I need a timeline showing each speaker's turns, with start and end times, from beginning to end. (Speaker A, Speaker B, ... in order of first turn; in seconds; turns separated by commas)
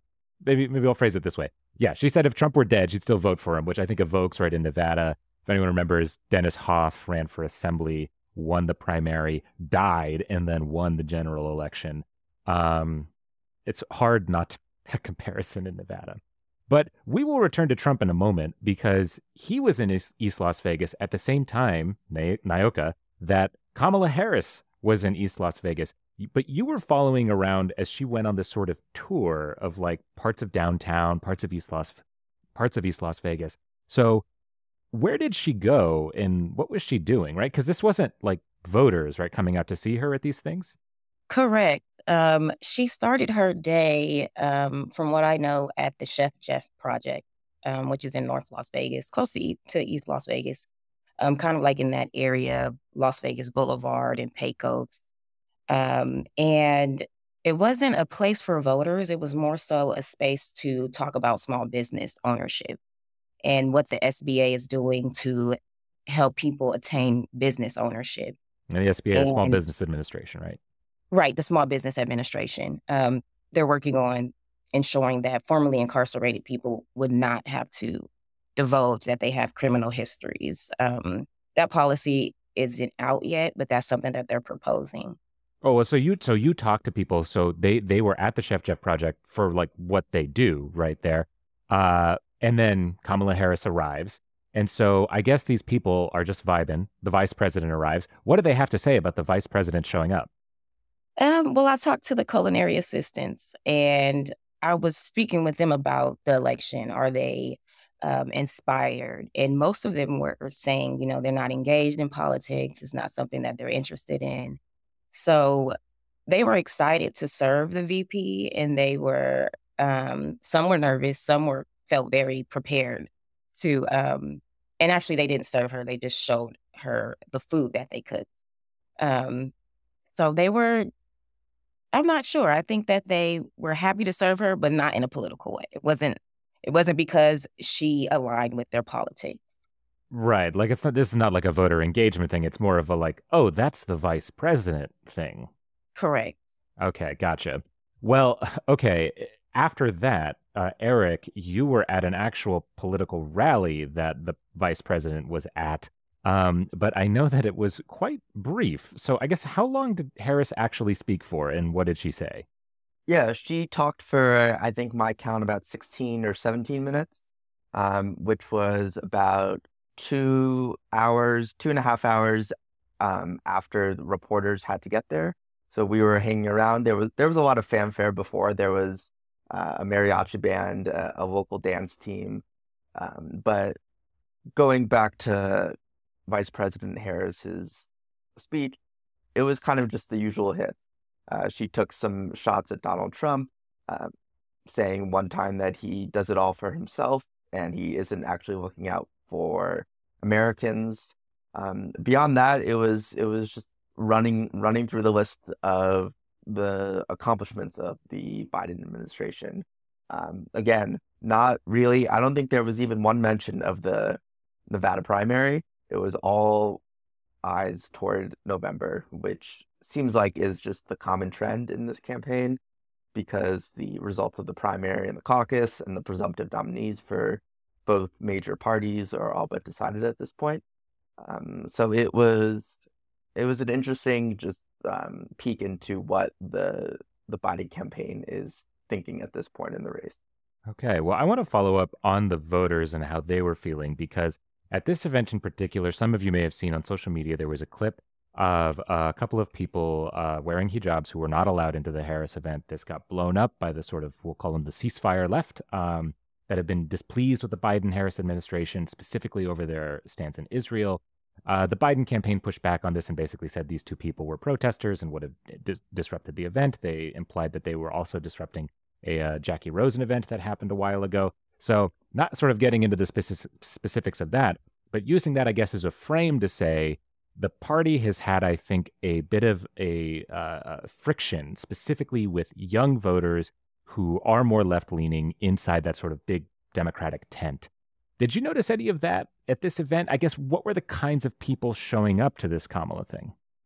Speaker A: 0.4-13.1, Speaker A: 13.7-32.0, Speaker A: 32.5-34.2, Speaker A: 34.9-40.8, Speaker B: 41.3-50.7, Speaker B: 51.2-55.1, Speaker B: 55.7-62.8, Speaker B: 63.4-68.3, Speaker A: 68.7-70.6, Speaker B: 69.1-69.6, Speaker B: 71.1-85.2, Speaker A: 85.6-100.3, Speaker B: 101.2-114.6, Speaker B: 115.1-115.7, Speaker B: 116.3-128.2, Speaker B: 129.0-129.5, Speaker B: 130.1-130.9, Speaker B: 131.9-139.6, Speaker A: 140.1-145.5, Speaker B: 145.9-146.4, Speaker A: 146.8-162.4, Speaker C: 163.1-182.4, Speaker C: 182.9-183.8, Speaker C: 184.5-185.7, Speaker C: 186.3-188.8, Speaker C: 189.3-190.8, Speaker C: 191.3-194.1, Speaker C: 194.7-216.8, Speaker C: 217.4-222.6, Speaker C: 223.1-230.6, Speaker C: 231.2-232.8, Speaker C: 233.3-240.2, Speaker A: 240.7-293.3